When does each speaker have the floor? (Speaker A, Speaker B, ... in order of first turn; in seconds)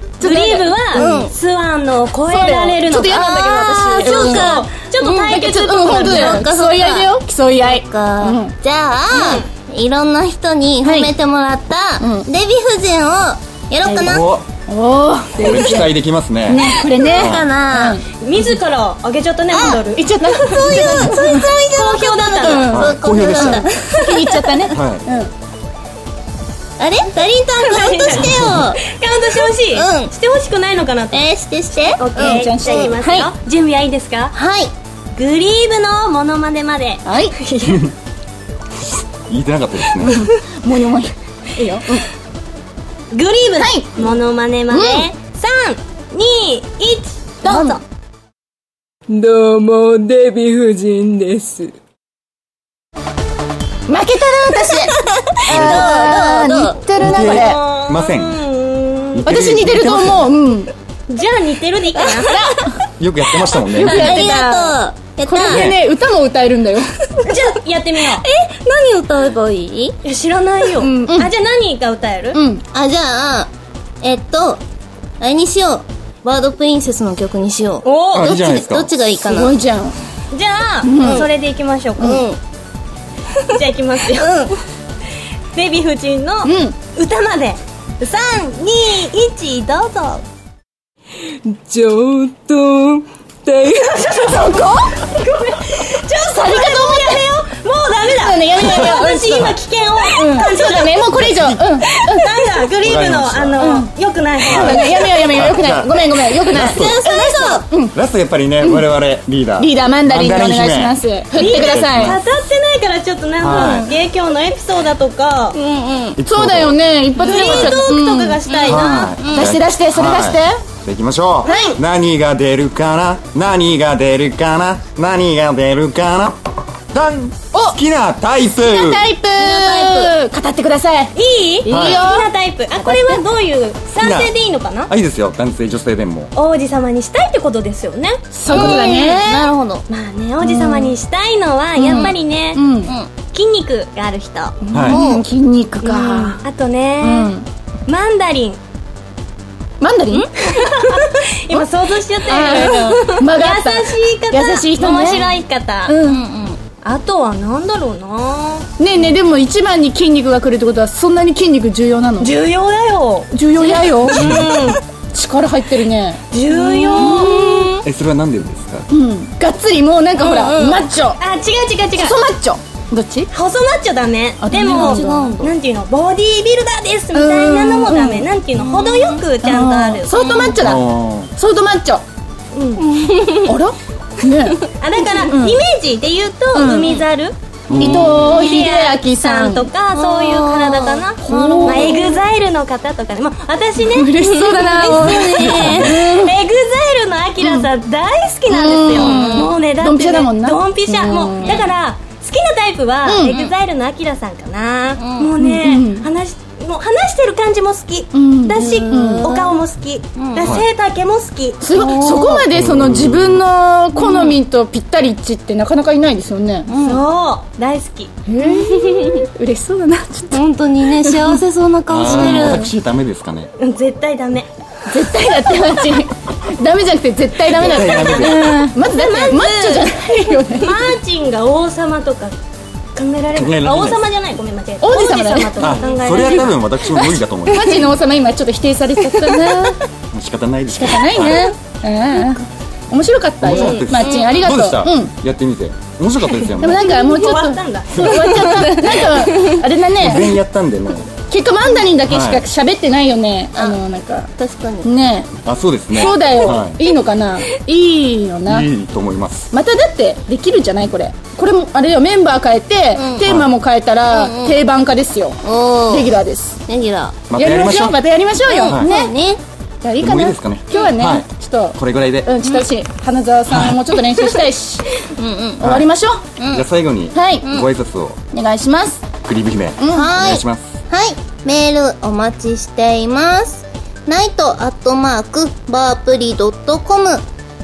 Speaker A: 0.2-1.2, 2.3-8.5, 10.8-11.1, 12.0-12.3, 13.8-18.0, 19.5-21.5, 22.3-25.3, 32.1-33.3, 37.0-37.3, 40.0-42.1, 43.6-44.1, 44.7-45.1, 47.4-47.8, 53.9-57.6, 59.2-60.7, 62.3-62.7, 63.6-66.9, 70.8-71.3, 72.3-72.6, 79.2-80.0, 80.8-81.3, 82.0-82.2, 86.4-86.8, 94.2-95.0, 96.2-97.2, 98.1-102.2, 103.6-103.9, 104.4-107.9, 108.6-108.9, 109.6-112.2, 113.4-113.9, 116.0-120.6, 121.5-121.8, 128.5-133.2, 138.3-139.5, 140.4-140.9, 141.8-142.9, 144.6-146.4, 147.0-147.4, 149.8-150.8, 152.2-155.3, 155.8-156.2, 158.8-162.3, 163.3-164.4, 165.1-166.2, 166.9-167.7, 168.9-171.2, 172.0-173.3, 174.4-175.3, 177.1-178.3, 179.4-182.0, 183.4-184.6, 185.3-185.6, 186.5-187.0, 187.8-189.7, 191.2-192.1, 193.8-196.3, 197.4-197.7, 198.5-201.7, 203.0-203.4, 205.4-206.1, 208.1-209.3, 211.6-216.7, 218.3-221.4, 222.0-222.7, 224.9-230.9, 234.8-239.8, 240.7-245.1, 246.6-250.4, 251.3-254.3, 254.8-255.3, 255.9-258.7, 259.5-266.6, 267.3-269.1, 269.8-274.9, 275.6-276.2, 277.1-277.5, 278.3-279.0, 279.8-280.1
Speaker B: 0.2-6.4, 9.1-9.4, 18.2-22.8, 27.6-34.3, 35.1-37.9, 43.1-47.8, 57.0-59.4, 61.1-62.4, 67.2-68.2, 70.0-72.4, 77.8-78.4, 80.3-82.2, 83.5-84.4, 85.5-90.2, 93.5-101.0, 101.8-105.1, 111.3-115.5, 117.2-119.1, 121.4-121.8, 131.1-134.9, 136.3-138.8, 139.9-142.6, 143.3-144.6, 145.8-147.3, 147.9-148.6, 150.4-156.0, 156.8-158.7, 162.2-164.8, 166.3-167.8, 170.2-172.2, 173.3-180.1, 182.5-182.8, 184.8-211.6, 216.8-218.1, 223.6-224.5, 227.5-232.3, 232.9-236.6, 243.5-244.5, 246.4-249.0
Speaker C: 0.9-1.3, 3.8-5.2, 5.8-14.3, 16.7-18.0, 20.4-23.7, 26.8-28.8, 29.3-30.1, 31.1-33.0, 34.3-34.7, 55.0-56.8, 63.8-65.7, 68.0-70.0, 72.7-73.5, 74.0-74.6, 75.2-79.5, 81.0-81.3, 82.0-82.4, 84.2-84.5, 106.6-107.7, 115.5-116.1, 119.2-119.5, 129.4-130.1, 138.7-139.8, 144.9-145.2, 156.0-156.6, 166.5-167.6, 170.5-170.8, 174.7-175.5, 178.6-179.2, 180.1-180.6, 182.8-183.5, 189.9-192.2, 194.3-196.0, 198.9-199.5, 201.4-201.7, 203.2-203.5, 205.0-205.3, 208.6-209.6, 210.2-210.6, 211.7-212.5, 213.9-214.4, 216.7-217.0, 218.4-219.2, 220.3-222.7, 253.5-253.8, 254.3-254.9, 262.9-263.3, 264.1-264.6, 265.4-266.1, 266.7-267.2, 268.5-269.4, 275.1-275.6, 276.4-276.7, 279.9-287.2
Speaker D: 14.0-14.4, 15.4-17.4, 22.7-23.7, 24.7-25.0, 28.1-28.7, 38.9-40.2, 55.5-56.2, 57.0-58.4, 59.1-60.3, 63.0-64.3, 65.4-65.8, 78.1-78.9, 101.1-101.7, 102.8-103.7, 104.4-107.0, 107.9-112.2, 113.4-113.9, 116.2-116.8, 117.3-117.8, 118.6-126.4, 126.9-129.0, 131.7-132.1, 134.0-134.3, 134.9-136.3, 138.5-138.8, 144.7-145.0, 167.8-168.9, 180.6-181.3, 187.7-188.2, 195.4-195.9, 212.5-213.4, 221.9-223.5, 227.5-228.6, 233.3-234.0, 235.6-237.9, 240.1-241.5, 243.4-246.9, 247.9-248.7, 250.0-251.1, 252.1-252.4, 255.4-256.8, 258.4-259.5, 263.2-263.5, 267.3-268.0, 268.6-268.9, 270.0-272.3, 273.5-273.8, 275.6-275.9, 276.5-278.2, 279.2-280.8
Speaker E: 49.1-51.7, 91.4-93.9